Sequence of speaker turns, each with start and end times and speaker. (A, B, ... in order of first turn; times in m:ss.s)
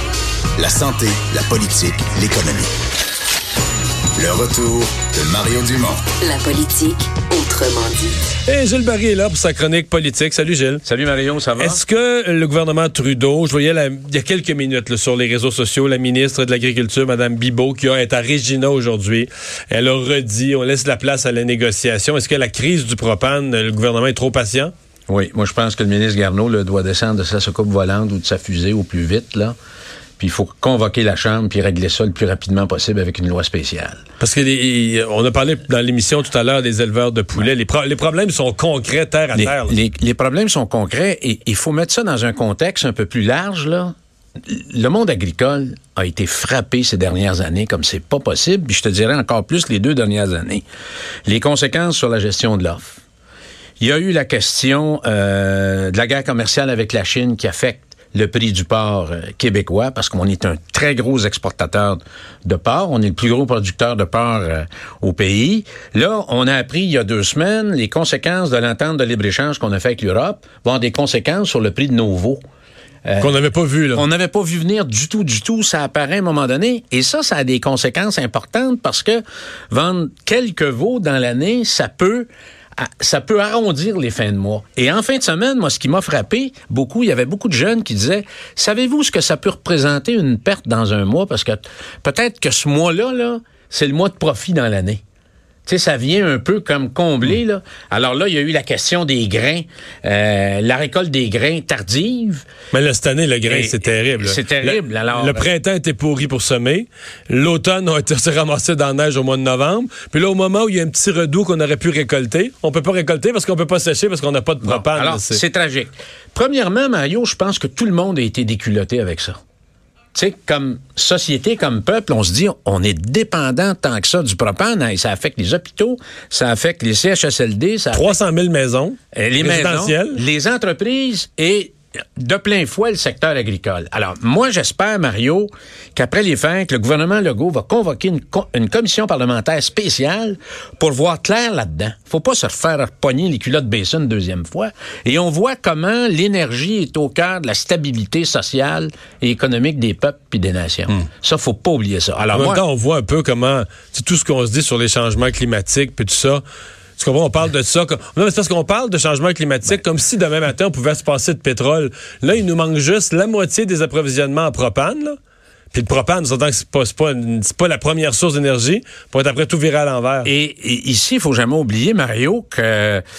0:00.6-0:02.7 A
0:04.2-0:06.1 A
0:06.1-0:08.2 B
0:08.5-0:10.8 C
0:10.8-0:11.8 D
0:11.6-0:24.7 C
0:25.1-0:29.6 D
0:30.2-0:34.0 D
0:34.2-0:39.8 C
0:39.3-0:43.9 D
0:44.4-0:50.6 D
0:51.3-0:53.0 D
0:53.8-1:12.4 D
1:13.1-1:13.4 D
1:13.2-1:14.0 C
1:13.9-1:35.0 D
1:35.7-1:42.4 D
1:42.7-1:55.4 C
1:43.4-1:45.5 D
1:54.6-1:59.4 D
2:00.1-2:08.2 D
2:07.9-2:10.2 C
2:09.1-2:32.6 D
2:32.3-2:36.4 C
2:37.0-2:45.2 C
2:45.7-2:50.3 C
2:50.2-2:53.0 D